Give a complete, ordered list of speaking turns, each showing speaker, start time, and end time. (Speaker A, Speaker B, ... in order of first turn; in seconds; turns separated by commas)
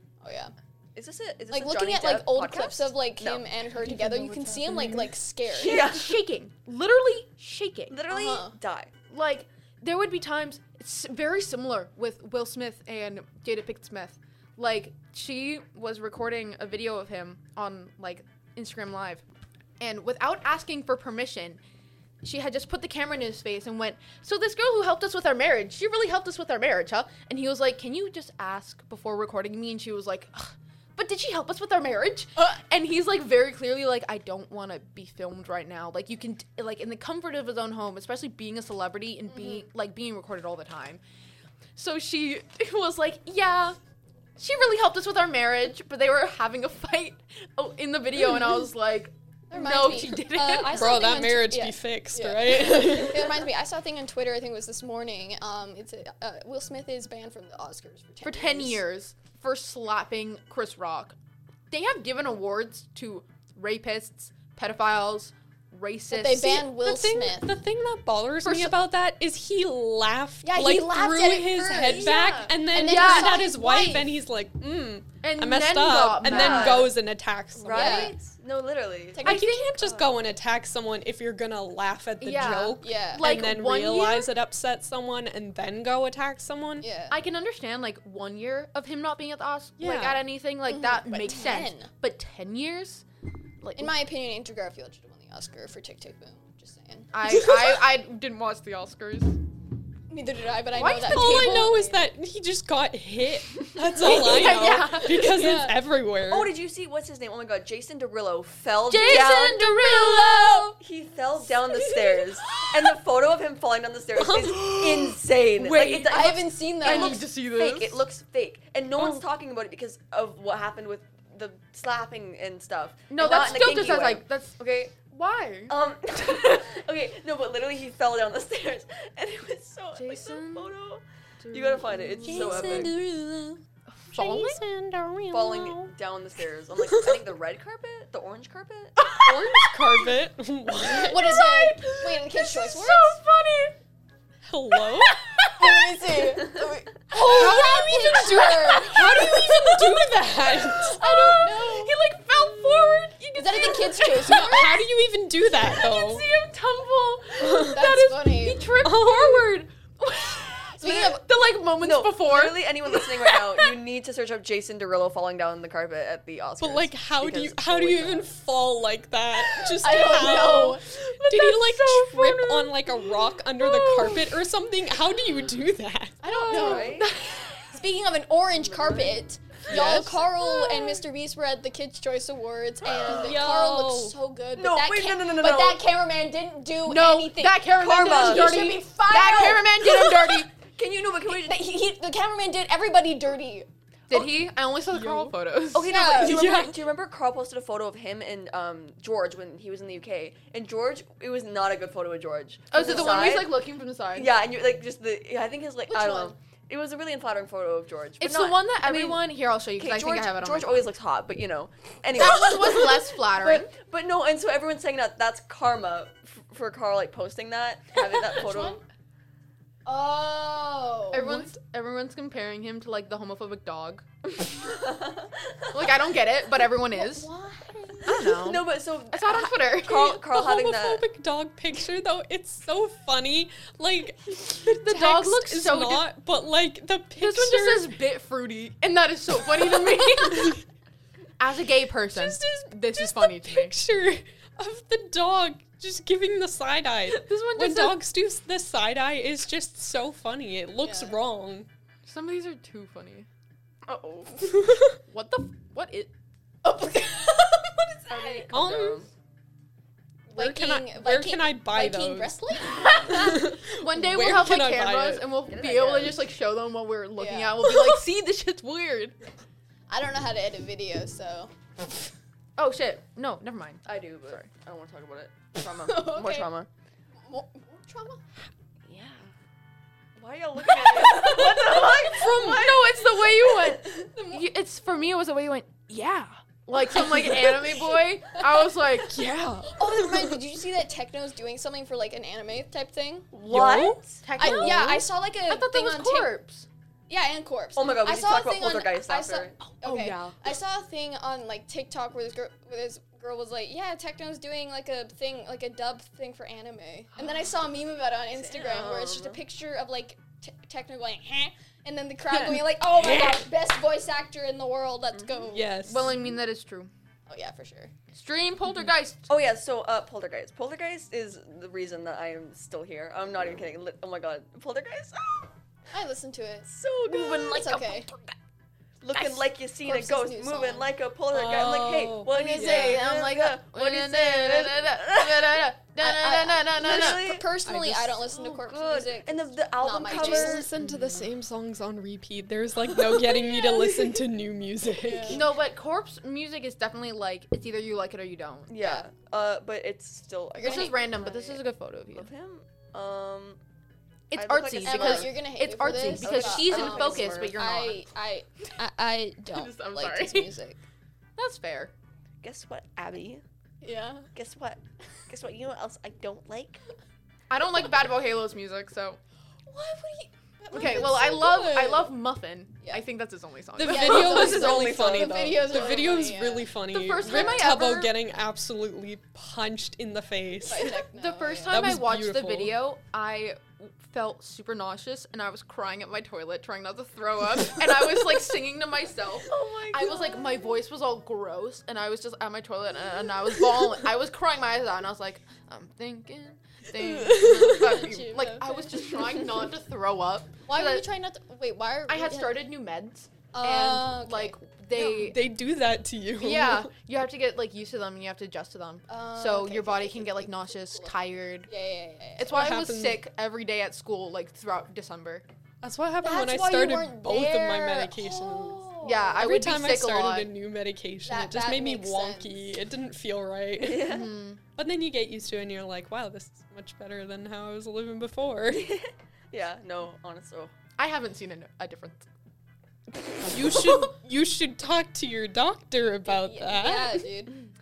Speaker A: 0.2-0.5, Speaker B: 1.0-3.5, Speaker A: 1.5-6.0, Speaker C: 3.7-5.2, Speaker B: 5.5-6.2, Speaker D: 5.5-8.0, Speaker B: 7.9-8.9, Speaker A: 8.1-8.6, Speaker D: 9.1-19.2, Speaker D: 19.8-21.6, Speaker D: 22.2-41.0, Speaker A: 39.3-39.7, Speaker D: 41.8-43.8, Speaker D: 44.4-51.1, Speaker A: 49.5-58.8, Speaker C: 50.7-53.5, Speaker D: 58.2-61.2, Speaker D: 61.7-66.7, Speaker A: 66.1-67.5, Speaker C: 66.7-78.2, Speaker D: 68.4-68.8, Speaker A: 70.4-74.1, Speaker D: 71.7-73.5, Speaker D: 75.2-76.9, Speaker B: 76.2-76.9, Speaker B: 77.5-79.2, Speaker A: 77.7-78.2, Speaker A: 79.1-79.6, Speaker C: 79.2-86.9, Speaker D: 79.2-80.1, Speaker D: 82.2-84.3, Speaker A: 82.8-83.3, Speaker A: 86.8-87.2, Speaker D: 87.1-93.0, Speaker C: 89.8-90.2, Speaker A: 90.7-91.9, Speaker D: 93.6-93.9, Speaker A: 93.8-97.4, Speaker D: 97.1-99.4, Speaker A: 100.1-102.0, Speaker D: 100.7-101.9, Speaker C: 101.0-106.5, Speaker D: 104.0-105.7, Speaker A: 104.0-105.8, Speaker B: 106.2-109.7, Speaker D: 108.9-110.8, Speaker A: 109.5-110.8, Speaker B: 110.8-125.0, Speaker C: 114.2-114.7, Speaker D: 114.4-118.0, Speaker A: 116.1-117.2, Speaker C: 119.0-119.2, Speaker D: 123.1-125.7, Speaker B: 125.7-132.9, Speaker D: 129.9-130.7, Speaker D: 131.4-132.9, Speaker C: 132.2-135.9, Speaker D: 134.1-134.6, Speaker B: 135.3-139.0, Speaker C: 136.9-137.2, Speaker D: 139.0-140.1, Speaker C: 139.2-141.4, Speaker D: 140.8-143.8, Speaker A: 140.9-143.2, Speaker C: 144.4-145.2, Speaker D: 144.8-146.5, Speaker A: 145.6-149.8, Speaker C: 147.1-151.4, Speaker D: 147.1-154.6, Speaker A: 151.0-151.9, Speaker A: 153.3-154.8, Speaker C: 154.0-156.3, Speaker D: 155.5-163.7, Speaker C: 157.4-157.8, Speaker A: 157.7-158.7, Speaker C: 158.8-159.6, Speaker A: 160.8-161.2, Speaker B: 161.8-168.3, Speaker C: 166.6-176.2, Speaker A: 169.8-170.8, Speaker D: 169.9-170.5, Speaker D: 171.2-174.4, Speaker D: 176.2-177.8, Speaker A: 176.2-176.9, Speaker B: 176.5-177.1, Speaker A: 177.7-190.4, Speaker B: 178.6-179.2, Speaker C: 179.7-180.3, Speaker D: 179.8-181.0, Speaker C: 183.1-184.2, Speaker B: 184.6-185.8, Speaker D: 186.8-190.5, Speaker B: 187.8-188.6, Speaker B: 190.7-191.6, Speaker A: 191.3-193.7, Speaker D: 194.1-195.9, Speaker C: 194.9-195.3, Speaker B: 195.7-203.6, Speaker A: 195.8-196.4, Speaker C: 196.2-196.8, Speaker D: 202.7-204.3, Speaker B: 204.1-218.8, Speaker A: 205.9-206.4, Speaker D: 208.2-210.9, Speaker D: 212.1-213.7, Speaker A: 218.3-218.8, Speaker A: 219.9-221.5, Speaker D: 221.1-224.1, Speaker B: 224.2-226.0, Speaker D: 225.7-227.3, Speaker A: 226.9-228.3, Speaker D: 228.1-230.2, Speaker B: 228.1-231.0, Speaker C: 230.2-237.9, Speaker D: 234.7-236.1, Speaker D: 237.2-240.6, Speaker C: 239.6-240.6, Speaker D: 241.4-243.8, Speaker C: 242.1-251.7, Speaker D: 247.1-248.0, Speaker A: 250.8-251.2, Speaker D: 252.0-253.3, Speaker B: 253.9-254.5, Speaker C: 254.6-254.9, Speaker D: 255.0-256.1, Speaker A: 256.6-258.4, Speaker D: 258.1-258.6, Speaker B: 258.1-259.1, Speaker C: 258.5-259.1, Speaker A: 260.3-263.4, Speaker C: 260.3-265.3, Speaker D: 262.7-269.2, Speaker B: 265.5-266.3, Speaker A: 267.2-268.0, Speaker A: 269.9-272.0, Speaker D: 272.6-274.5, Speaker B: 273.9-276.7, Speaker A: 275.6-276.5, Speaker A: 277.2-278.2, Speaker B: 278.9-279.3, Speaker B: 280.2-282.7, Speaker A: 280.7-281.9, Speaker D: 281.1-289.2, Speaker C: 282.0-282.7, Speaker A: 283.4-284.5, Speaker A: 286.9-288.6, Speaker A: 289.7-293.3, Speaker C: 289.9-290.3, Speaker B: 293.3-294.2, Speaker C: 293.5-295.0, Speaker D: 294.2-296.7, Speaker A: 294.4-296.3, Speaker A: 297.1-315.9, Speaker B: 297.8-299.6, Speaker D: 299.8-300.4, Speaker B: 308.3-309.4, Speaker D: 312.3-313.4, Speaker B: 315.1-315.5, Speaker C: 315.5-316.1, Speaker D: 315.8-316.9, Speaker A: 317.3-317.9, Speaker D: 318.1-319.3, Speaker B: 319.3-325.5, Speaker A: 325.9-328.1, Speaker B: 326.6-328.3, Speaker B: 329.0-335.7, Speaker A: 329.2-330.9, Speaker C: 331.3-333.0, Speaker D: 332.3-337.3, Speaker A: 336.0-340.7, Speaker B: 336.8-337.4, Speaker C: 337.6-338.2, Speaker B: 338.3-340.7, Speaker C: 340.1-345.5, Speaker D: 340.8-341.3, Speaker A: 343.2-343.9, Speaker A: 345.0-345.4, Speaker D: 345.3-348.7, Speaker B: 348.7-351.4, Speaker A: 348.8-349.1, Speaker A: 350.6-351.6, Speaker D: 350.6-352.3, Speaker B: 352.1-353.6, Speaker D: 354.3-358.1, Speaker B: 354.3-355.4, Speaker A: 354.8-360.8, Speaker B: 356.2-357.6, Speaker D: 359.5-360.5, Speaker D: 361.4-361.9, Speaker B: 362.4-363.4, Speaker A: 363.8-364.3, Speaker B: 364.3-366.8, Speaker D: 367.5-369.2, Speaker A: 369.7-372.1, Speaker D: 370.7-374.7, Speaker C: 373.8-381.0, Speaker A: 373.9-377.8, Speaker B: 373.9-375.8, Speaker D: 376.9-378.1, Speaker A: 380.6-381.8, Speaker D: 380.9-401.1, Speaker C: 381.7-382.8, Speaker B: 389.5-390.6, Speaker A: 397.0-399.2, Speaker C: 397.4-398.0, Speaker A: 400.7-402.5, Speaker D: 402.1-405.5, Speaker A: 403.5-404.6, Speaker C: 405.0-406.9, Speaker D: 406.4-411.7, Speaker A: 409.1-411.1, Speaker A: 411.7-412.6, Speaker D: 412.4-415.5, Speaker C: 412.5-413.2, Speaker C: 415.8-424.2, Speaker A: 416.2-419.4, Speaker D: 419.0-420.5, Speaker A: 421.3-422.5, Speaker B: 423.8-424.3, Speaker D: 424.0-424.6, Speaker C: 424.8-428.9, Speaker B: 428.7-430.7, Speaker D: 431.0-432.3, Speaker C: 433.4-437.3, Speaker A: 436.3-437.7